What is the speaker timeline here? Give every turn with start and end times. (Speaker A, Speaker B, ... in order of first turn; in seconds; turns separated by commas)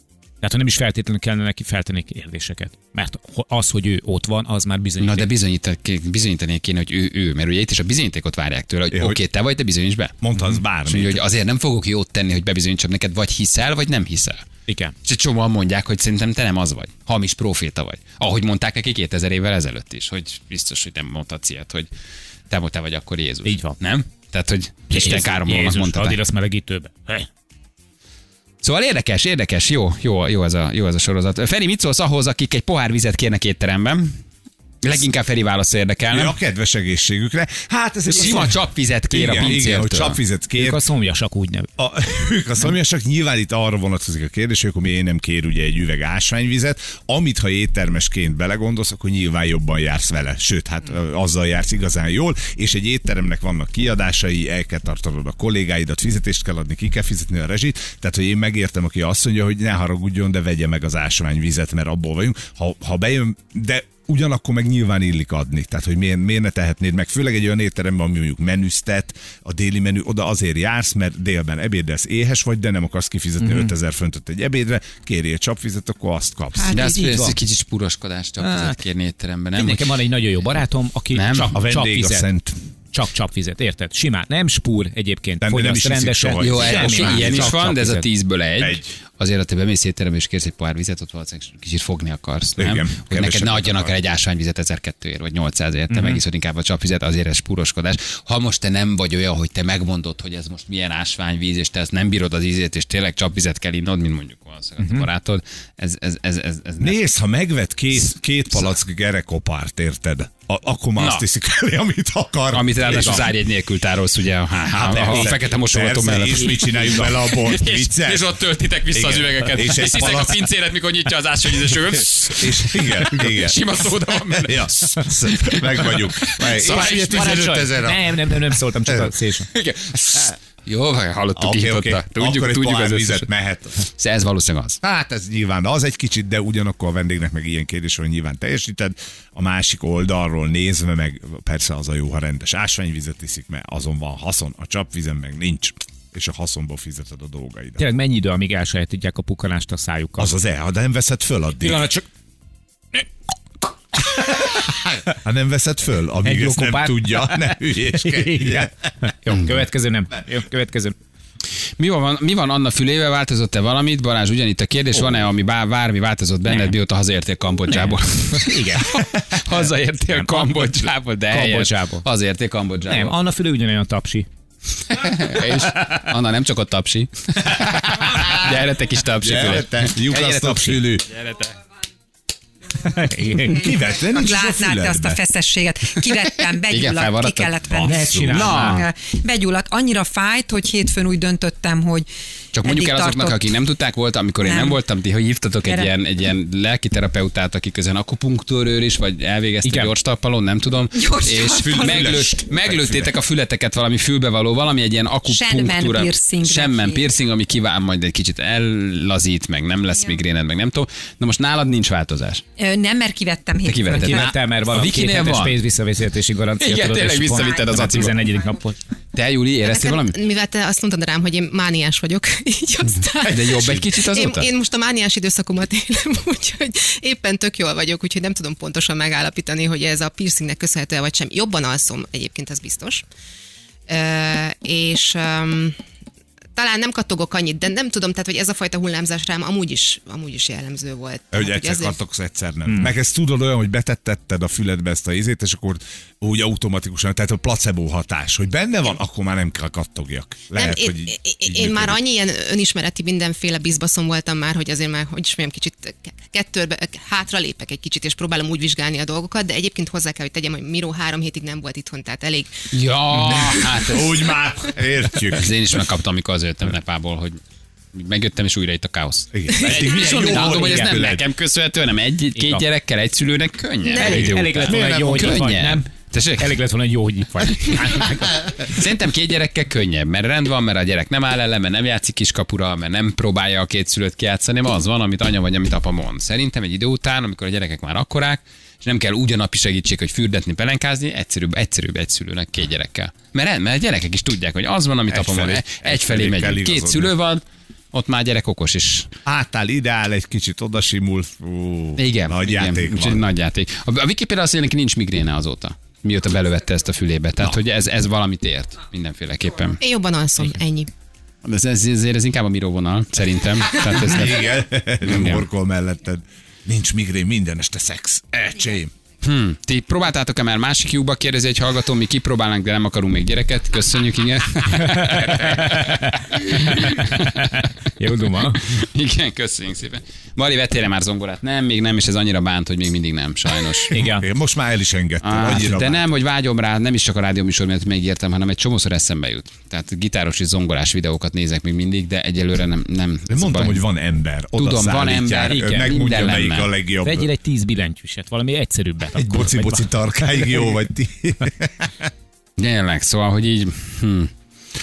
Speaker A: 0.4-5.3, Speaker B: 5.0-10.3, Speaker C: 8.9-9.2, Speaker C: 10.2-11.2, Speaker B: 10.8-14.4, Speaker A: 14.7-14.9, Speaker B: 15.0-21.9, Speaker B: 22.5-26.2, Speaker A: 23.4-23.8, Speaker A: 24.9-27.3, Speaker B: 28.6-34.2, Speaker B: 34.8-36.4, Speaker C: 36.1-40.8, Speaker B: 38.1-40.2, Speaker A: 38.1-38.4, Speaker A: 39.1-39.5, Speaker A: 40.6-41.7, Speaker C: 41.8-76.7, Speaker A: 73.4-73.7, Speaker A: 76.6-77.4, Speaker B: 76.7-79.9, Speaker A: 78.4-78.8, Speaker A: 79.5-82.3, Speaker B: 81.1-81.5, Speaker C: 81.5-82.6, Speaker A: 82.9-88.0, Speaker C: 85.4-87.7, Speaker B: 86.4-107.2, Speaker C: 88.6-88.8, Speaker C: 92.6-94.0, Speaker A: 95.9-96.2, Speaker A: 104.8-105.1, Speaker C: 106.8-113.4, Speaker B: 111.0-111.2, Speaker B: 112.5-127.6, Speaker C: 114.7-118.4, Speaker C: 118.9-120.4, Speaker C: 121.9-128.3, Speaker A: 126.7-129.5, Speaker C: 128.8-129.1, Speaker B: 129.5-133.3, Speaker C: 131.3-133.8, Speaker B: 133.9-134.8, Speaker C: 134.8-147.8, Speaker A: 147.8-150.3, Speaker C: 150.2-151.9, Speaker A: 151.6-152.0, Speaker C: 154.1-158.7, Speaker A: 156.2-160.9, Speaker B: 161.8-173.2, Speaker A: 167.7-168.9, Speaker A: 170.1-172.0, Speaker A: 172.9-174.3, Speaker B: 174.9-181.5, Speaker C: 179.2-181.1, Speaker A: 182.8-183.7, Speaker C: 183.5-185.2, Speaker D: 184.0-192.1, Speaker B: 186.1-188.8, Speaker C: 187.7-188.7, Speaker A: 187.8-188.8, Speaker B: 192.5-212.4, Speaker D: 192.6-193.5, Speaker D: 194.4-194.8, Speaker D: 195.6-195.9, Speaker A: 199.6-199.9, Speaker D: 200.9-202.3, Speaker C: 201.5-203.1, Speaker D: 205.2-207.2, Speaker D: 212.6-214.2, Speaker B: 213.6-215.6, Speaker A: 213.9-218.8, Speaker B: 216.6-218.2, Speaker B: 219.1-220.2, Speaker E: 219.6-233.0, Speaker B: 223.2-224.5, Speaker E: 233.9-235.8, Speaker E: 236.6-241.9, Speaker C: 241.3-252.0, Speaker A: 242.7-242.9, Speaker E: 250.5-262.5, Speaker B: 262.7-264.3, Speaker C: 263.1-265.6, Speaker B: 265.3-267.4, Speaker B: 267.9-276.6, Speaker C: 269.3-271.2, Speaker A: 269.6-270.9, Speaker A: 272.3-272.6, Speaker A: 273.9-278.5, Speaker C: 274.0-275.4, Speaker B: 278.6-297.4, Speaker C: 295.1-297.1, Speaker B: 297.9-299.1, Speaker C: 299.2-303.3, Speaker B: 302.0-309.8, Speaker E: 309.8-310.9, Speaker B: 311.4-315.4, Speaker C: 313.7-318.9, Speaker B: 319.2-327.6, Speaker A: 324.8-328.6, Speaker B: 328.6-333.9, Speaker A: 333.9-334.2, Speaker C: 334.0-336.1, Speaker B: 335.2-343.8, Speaker C: 343.3-347.3, Speaker B: 344.6-346.7, Speaker A: 345.4-346.0, Speaker A: 347.0-350.7, Speaker C: 349.1-352.1, Speaker B: 352.6-354.3